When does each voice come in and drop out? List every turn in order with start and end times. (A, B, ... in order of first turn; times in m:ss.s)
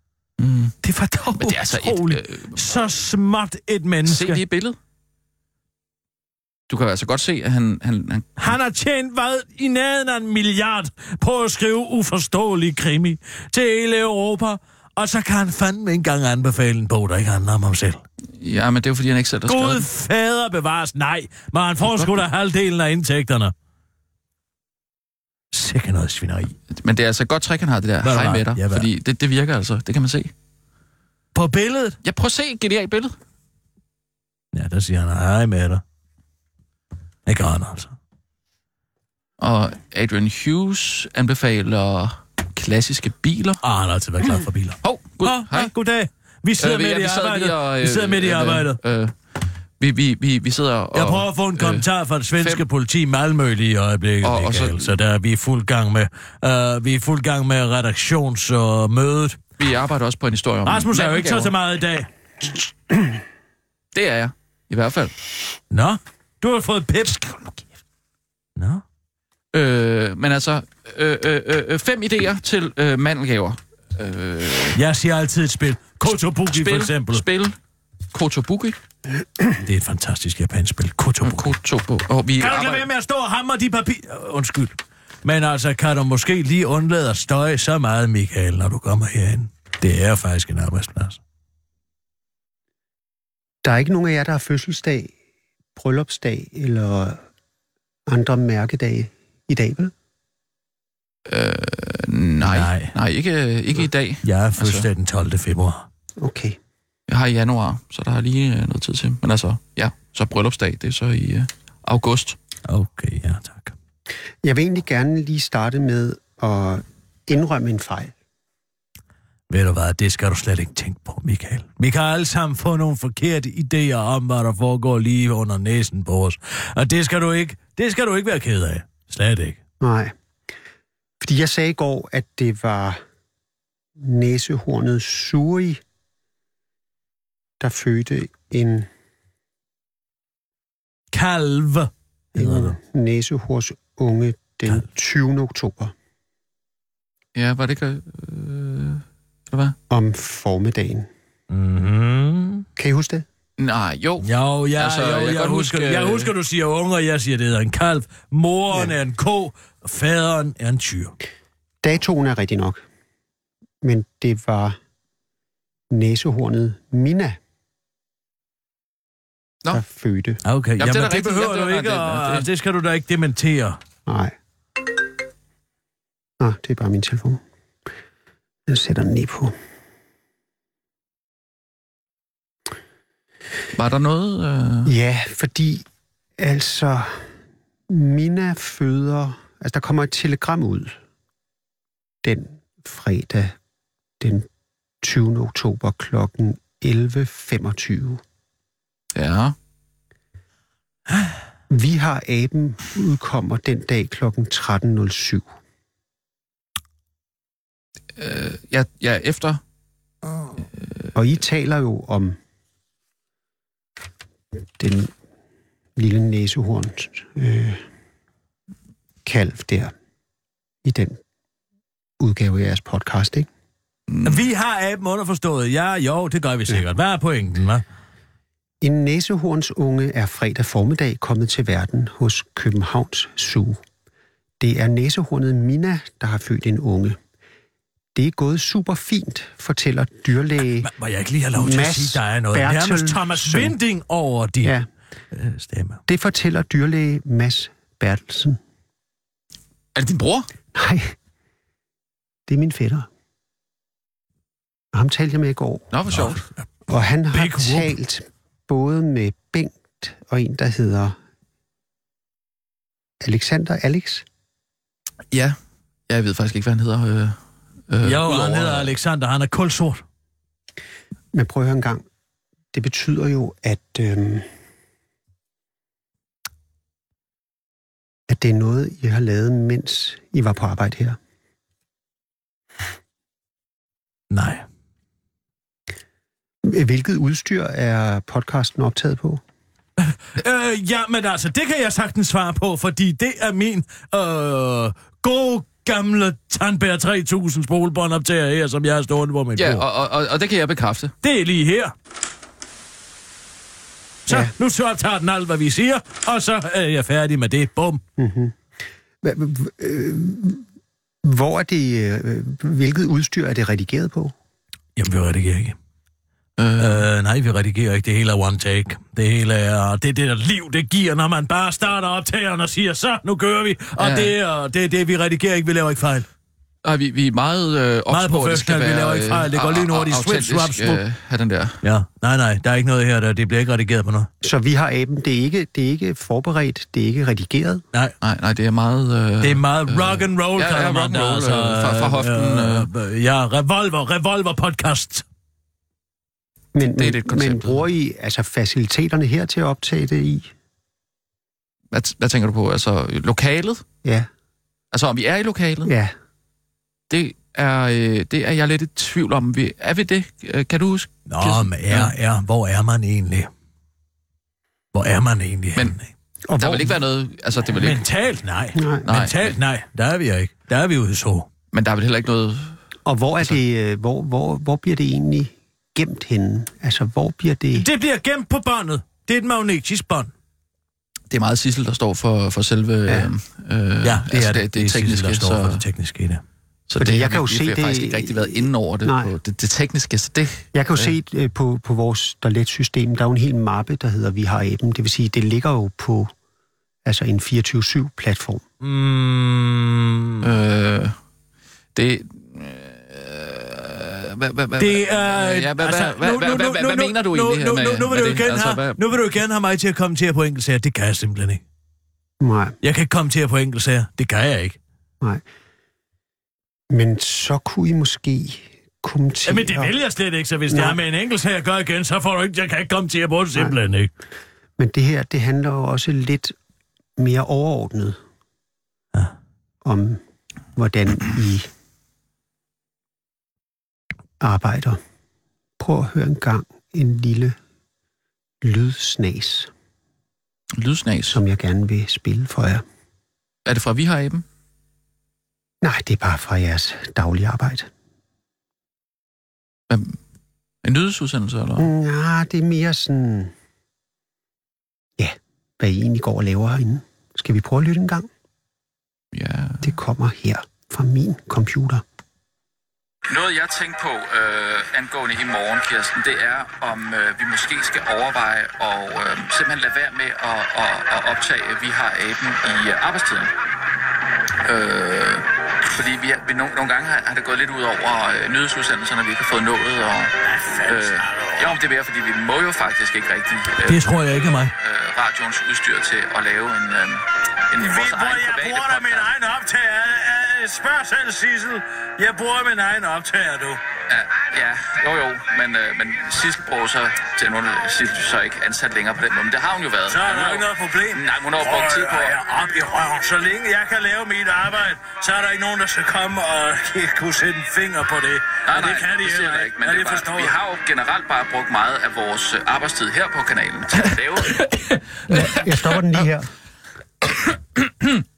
0:00.4-0:00.8 A
0:00.8-0:04.4 B
0:01.3-0:02.8 A
0:04.0-0:04.8 A
0:06.7-0:08.5 A
0:08.4-0:18.0 B
0:18.4-0:19.9 A
0:19.4-0:23.5 B
0:21.8-0:22.2 A
0:25.5-0:26.5 B
0:26.7-0:30.3 A
0:28.0-0:28.9 B
0:31.3-0:32.0 B
0:32.0-0:33.2 A
0:34.5-0:35.8 B
0:37.2-0:37.9 B
0:39.4-0:43.6 A
0:43.6-0:48.8 B
0:44.8-0:45.7 A
0:46.6-0:49.2 A
0:49.8-0:51.9 A
0:50.9-0:59.4 B
0:52.4-0:52.6 A
0:54.2-0:54.9 A
0:59.6-1:01.5 A
1:00.6-1:02.1 B
1:03.9-1:05.1 A
1:05.7-1:07.4 B
1:08.6-1:08.8 B
1:09.5-1:14.8 A
1:14.7-1:17.2 B
1:16.4-1:17.5 A
1:18.1-1:18.8 A
1:19.6-1:21.5 B
1:21.2-1:22.8 A
1:22.4-1:31.2 B
1:33.6-1:35.1 C
1:35.8-1:37.2 C
1:38.1-1:39.9 C
1:41.2-1:44.9 A
1:42.4-1:42.9 B
1:44.2-1:45.9 B
1:46.2-1:46.6 C
1:47.1-1:52.4 A
1:52.6-1:53.7 B
1:54.4-1:58.1 C
1:59.5-2:09.6 B
2:09.8-2:10.1 C
2:11.2-2:13.0 C
2:14.0-2:15.8 C
2:17.6-2:18.9 C
2:21.1-2:22.8 B
2:22.3-2:25.9 C
2:27.3-2:29.8 A
2:29.9-2:31.1 C
2:31.5-2:32.6 B
2:32.8-2:33.2 C
2:33.6-2:36.3 A
2:34.2-2:41.1 B
2:41.8-2:42.8 C
2:43.8-2:44.8 C
2:45.9-2:47.4 C
2:49.7-2:50.4 C
2:50.4-2:53.8 B
2:50.8-2:52.5 A
2:54.1-2:54.3 C
2:56.4-2:57.4 C
2:58.7-2:59.5 C
3:03.7-3:04.9 A
3:04.8-3:05.8 C
3:06.4-3:07.3 C
3:07.9-3:10.9 C
3:12.2-3:13.5 C
3:14.2-3:14.5 C
3:15.0-3:18.2 C
3:19.1-3:19.5 A
3:21.7-3:25.5 C
3:28.2-3:29.6 A
3:31.1-3:32.4 C
3:34.8-3:35.1 C
3:36.0-3:37.8 C
3:39.2-3:39.9 C
3:40.8-3:41.2 C
3:42.2-3:43.5 C
3:44.1-3:44.4 A
3:44.2-3:47.8 B
3:48.8-3:53.8 C
3:54.6-3:57.2 C
3:58.1-4:00.9 C
4:00.8-4:04.8 B
4:01.6-4:03.8 C
4:05.3-4:06.0 B
4:06.1-4:08.6 C
4:09.9-4:10.5 A
4:10.7-4:11.1 C
4:12.5-4:13.1 C
4:14.9-4:15.9 C
4:15.9-4:16.4 A
4:16.1-4:16.5 B
4:16.9-4:21.2 C
4:17.3-4:18.0 B
4:23.2-4:24.2 C
4:25.3-4:25.6 A
4:26.1-4:28.9 A
4:28.0-4:30.0 B
4:31.3-4:32.0 C
4:32.7-4:34.4 C
4:38.3-4:41.2 C
4:44.3-4:44.6 B
4:46.6-4:49.4 C
4:50.0-4:59.9 B
4:59.6-5:01.1 A
5:01.2-5:01.9 B
5:04.3-5:08.0 B
5:08.2-5:08.6 C
5:09.2-5:10.6 C
5:11.2-5:14.3 C
5:15.0-5:15.8 B
5:16.6-5:17.0 A
5:16.8-5:26.3 B
5:24.0-5:24.3 A
5:26.8-5:31.8 A
5:28.1-5:31.0 B
5:31.8-5:34.3 B
5:34.4-5:37.8 C
5:38.2-5:42.9 A
5:39.4-5:45.2 B
5:46.7-5:50.5 C
5:46.8-5:47.9 A
5:51.9-5:53.8 A
5:54.0-5:54.3 C
5:54.9-5:55.9 A
5:55.8-5:56.1 C
5:57.1-6:02.1 A
6:01.3-6:03.5 B
6:04.9-6:06.1 B
6:06.5-6:07.0 C
6:06.6-6:08.0 A
6:07.7-6:11.5 B
6:08.7-6:09.0 C
6:09.0-6:09.6 A
6:11.7-6:12.8 A
6:13.0-6:17.9 C
6:17.8-6:20.3 B
6:21.3-6:25.8 A
6:24.0-6:26.4 B
6:26.9-6:31.1 A
6:27.0-6:29.3 C
6:30.7-6:36.3 C
6:37.0-6:38.6 C
6:38.8-6:40.5 B
6:40.4-6:41.1 A
6:41.9-6:49.0 A
6:44.8-6:51.6 B
6:52.4-6:52.8 C
6:52.8-6:54.8 B
6:56.9-6:59.9 C
6:59.4-7:04.1 B
7:00.7-7:01.0 C
7:04.8-7:06.5 C
7:07.2-7:08.2 C
7:09.8-7:10.2 C
7:10.8-7:11.7 C
7:14.4-7:15.0 C
7:15.8-7:17.6 C
7:18.6-7:19.7 C
7:20.8-7:21.4 A
7:21.3-7:22.8 C
7:23.6-7:24.4 A
7:25.8-7:27.9 C
7:29.9-7:30.2 A
7:30.8-7:31.9 A
7:31.8-7:33.5 C
7:35.2-7:38.3 C
7:39.3-7:40.0 A
7:39.8-7:42.0 C
7:43.3-7:53.5 A
7:54.6-8:09.3 A
8:00.4-8:01.8 B
8:03.8-8:04.7 B
8:07.8-8:13.8 B
8:14.1-8:22.4 A
8:20.1-8:30.6 B
8:28.6-8:36.2 A
8:35.3-8:36.5 C